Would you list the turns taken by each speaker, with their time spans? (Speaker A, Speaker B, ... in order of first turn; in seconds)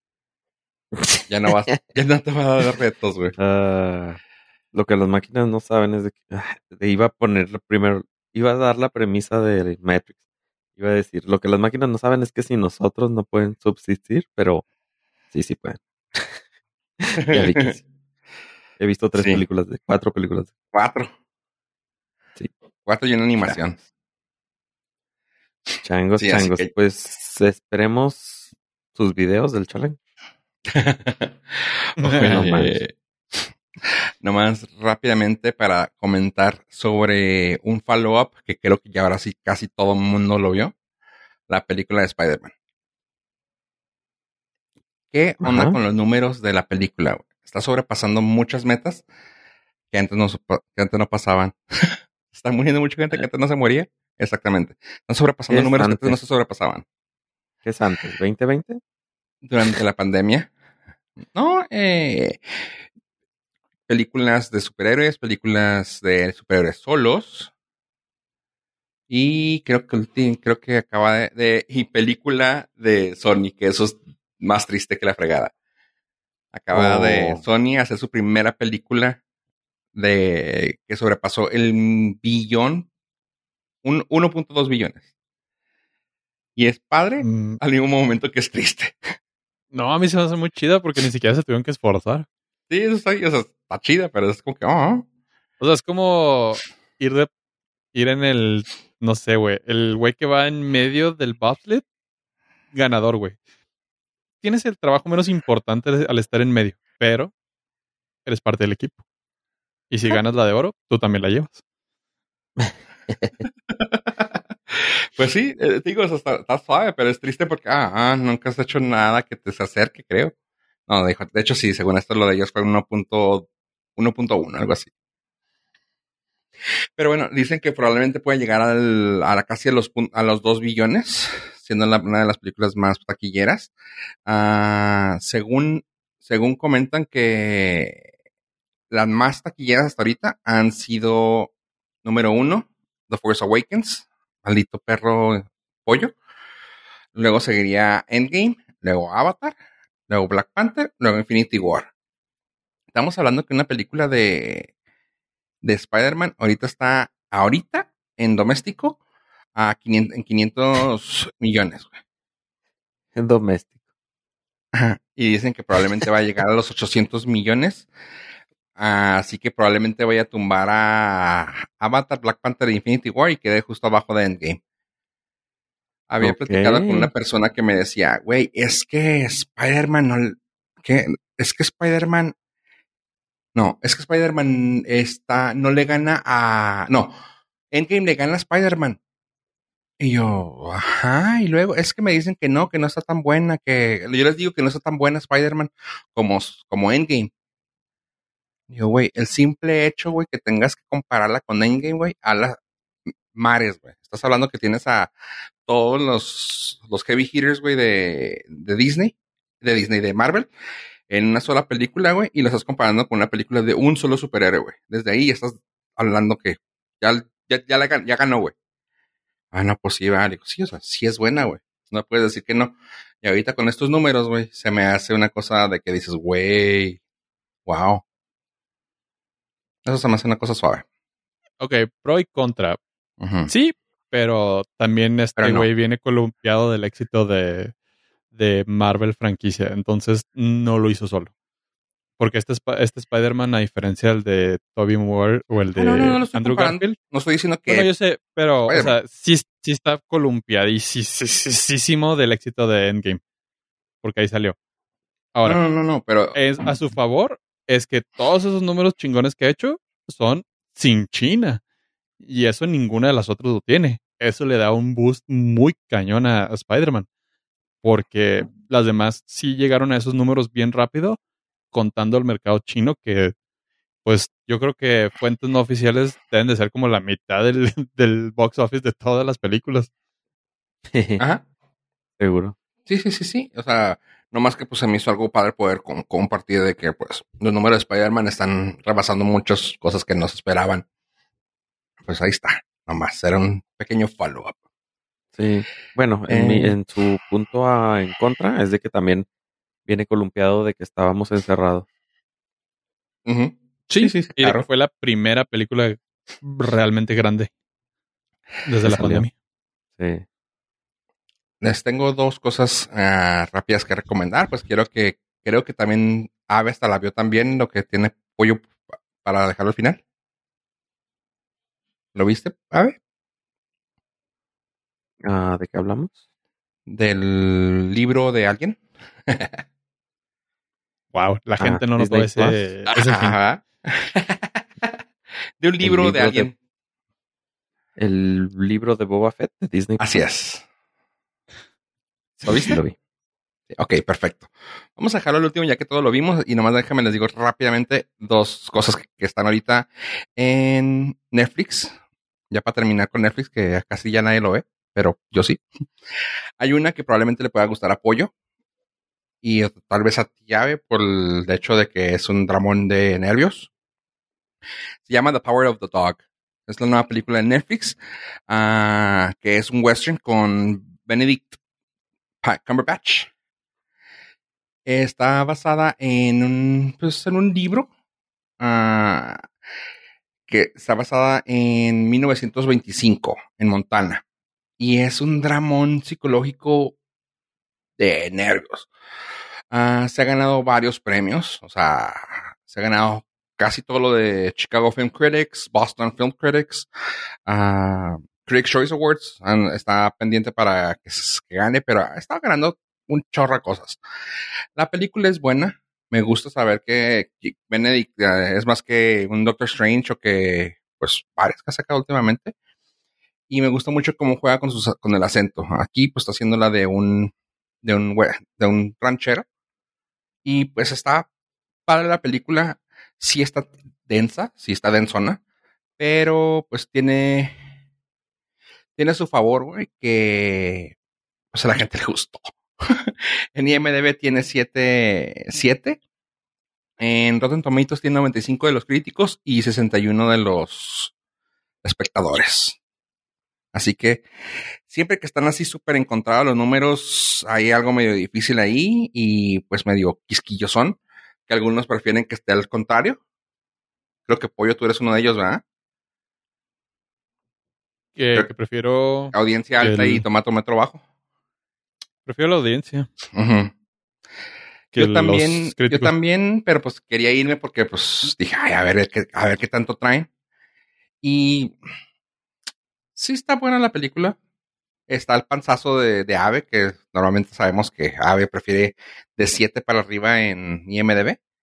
Speaker A: 0.9-1.8, 3.4-4.2, 4.7-10.1, 10.8-14.6, 15.3-16.4, 17.0-17.8, 18.8-20.5, 25.8-30.0, 32.2-32.8, 45.4-45.8, 55.5-56.2, 57.6-58.8, 76.7-77.4, 112.6-113.4, 163.1-163.7, 176.2-177.1, 280.9-281.2, 282.2-282.6, 295.4-299.3, 299.9-301.9, 308.8-309.2, 310.0-310.2, 325.2-326.1, 331.6-332.7, 335.8-336.5, 338.0-340.0, 342.4-342.9
Speaker B: 1.3-3.3, 17.2-17.7, 19.1-19.4, 20.7-21.1, 22.9-23.8, 26.2-26.7, 30.7-32.9, 34.2-40.7, 41.5-42.5, 45.1-49.0, 49.9-56.8, 59.4-60.5, 61.3-62.4, 63.9-67.5, 69.1-75.5, 76.5-79.2, 79.9-82.9, 83.8-85.0, 86.5-89.1, 92.7-95.0, 113.7-120.3, 120.9-124.9, 127.0-133.7, 134.2-138.0, 138.9-141.5, 142.0-146.1, 147.1-149.5, 150.1-151.9, 152.9-154.7, 155.6-159.0, 159.6-161.9, 164.7-167.9, 168.8-174.6, 176.1-182.3, 183.5-187.1, 187.7-189.0, 190.0-197.3, 198.7-202.6, 203.3-205.1, 205.7-210.5, 211.1-218.5, 219.5-227.0, 227.7-228.0, 229.8-230.8, 233.2-233.5, 235.4-235.7, 245.7-247.9, 248.7-248.9, 255.4-256.7, 282.9-290.8, 292.0-294.6, 296.3-296.8, 303.2-304.6, 311.6-320.0, 322.1-323.0, 326.9-329.6, 332.9-334.9, 335.6-336.5, 340.0-340.6, 342.5-342.8, 343.7-351.9, 352.5-355.6, 356.6-358.3, 359.4-363.7, 365.1-368.0, 368.5-371.6, 372.4-373.3, 374.9-377.9, 378.6-379.4, 380.5-384.2, 384.8-387.0, 388.0-388.9, 389.7-396.9, 397.5-404.0, 404.8-412.5, 413.5-419.4, 420.4-421.3, 421.9-425.4, 426.0-427.5, 429.0-430.9, 431.5-436.0, 437.0-441.1, 441.8-442.8, 443.7-444.2, 444.9-453.2, 454.3-455.6, 459.3-461.0, 463.3-463.7, 464.9-470.3, 471.2-471.7, 473.1-474.4, 475.1-481.4
Speaker C: 32.0-32.5, 87.2-87.6, 89.7-92.2, 95.6-97.3, 97.9-101.8, 102.7-103.4, 104.4-107.3, 108.2-109.0, 109.9-111.6, 231.6-232.8, 233.5-237.7, 238.3-241.3, 242.2-246.9, 247.7-253.2, 254.0-254.6, 255.3-255.6, 256.3-261.6, 262.2-267.1, 267.8-271.2, 271.7-273.3, 274.0-279.9, 303.9-307.5, 308.6-309.3, 331.1-333.4, 458.1-460.2, 462.2-463.1, 464.9-466.1